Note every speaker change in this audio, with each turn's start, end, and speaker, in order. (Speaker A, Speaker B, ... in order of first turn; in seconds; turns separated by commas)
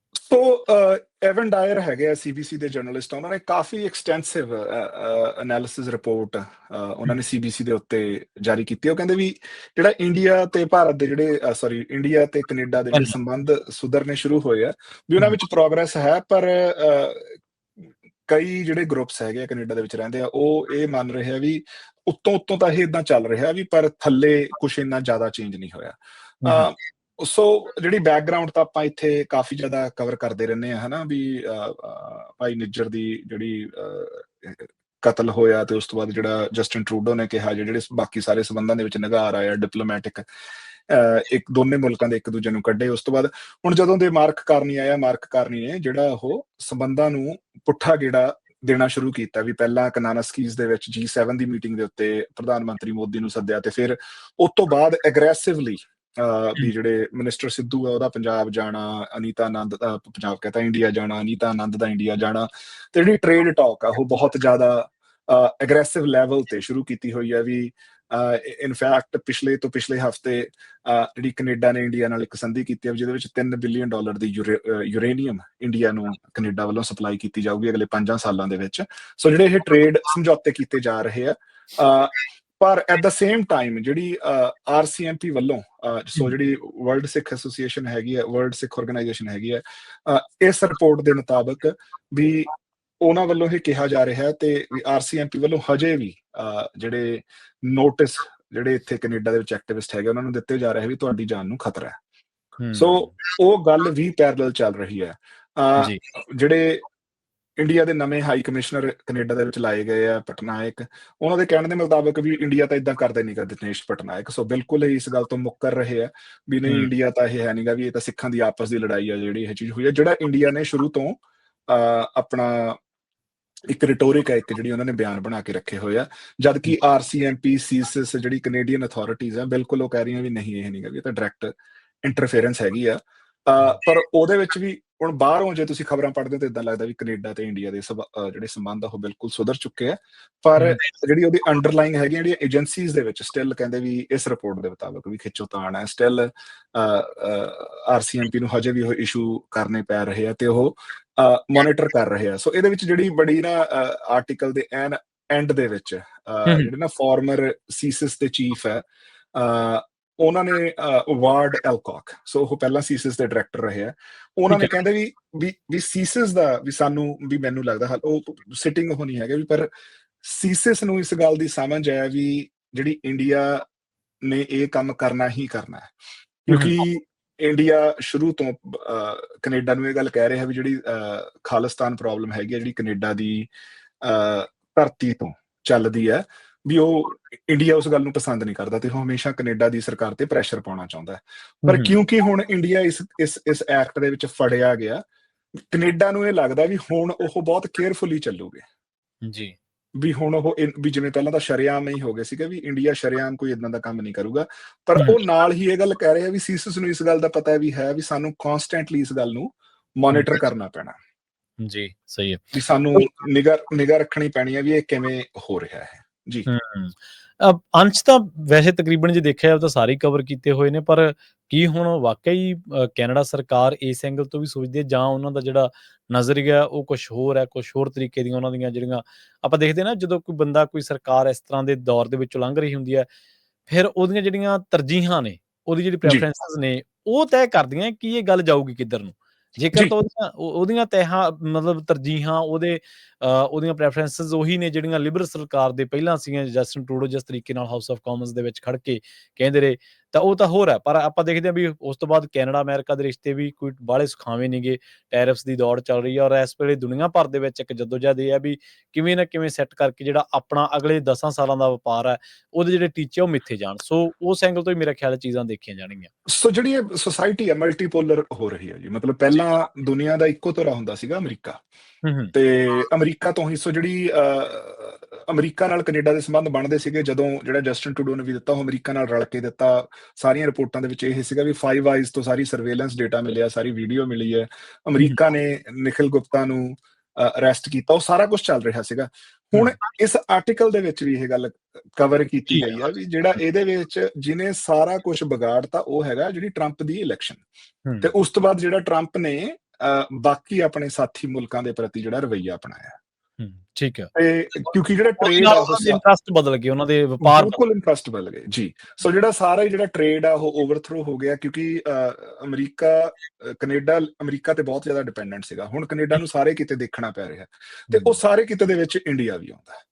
Speaker A: 0.3-40.3, Speaker A: 40.9-102.0, Speaker B: 102.6-103.1, Speaker A: 102.7-106.8, Speaker A: 107.6-122.8, Speaker B: 116.7-116.9, Speaker A: 123.7-131.5, Speaker A: 132.0-158.8, Speaker A: 159.3-169.7, Speaker B: 164.5-164.8, Speaker A: 170.2-173.6, Speaker A: 174.2-175.9, Speaker A: 176.5-183.5, Speaker B: 176.5-176.8, Speaker A: 184.0-195.0, Speaker B: 191.7-191.9, Speaker A: 195.7-198.6, Speaker B: 199.2-199.6, Speaker A: 200.0-211.0, Speaker B: 210.1-210.4, Speaker B: 211.6-212.4, Speaker A: 212.5-216.5, Speaker B: 216.5-233.1, Speaker B: 233.7-266.1, Speaker A: 266.3-271.6, Speaker B: 272.1-272.3, Speaker A: 272.3-297.4, Speaker A: 298.0-303.0, Speaker B: 303.4-304.1, Speaker A: 304.1-306.0, Speaker B: 305.2-307.6, Speaker A: 307.2-319.8, Speaker B: 317.9-318.2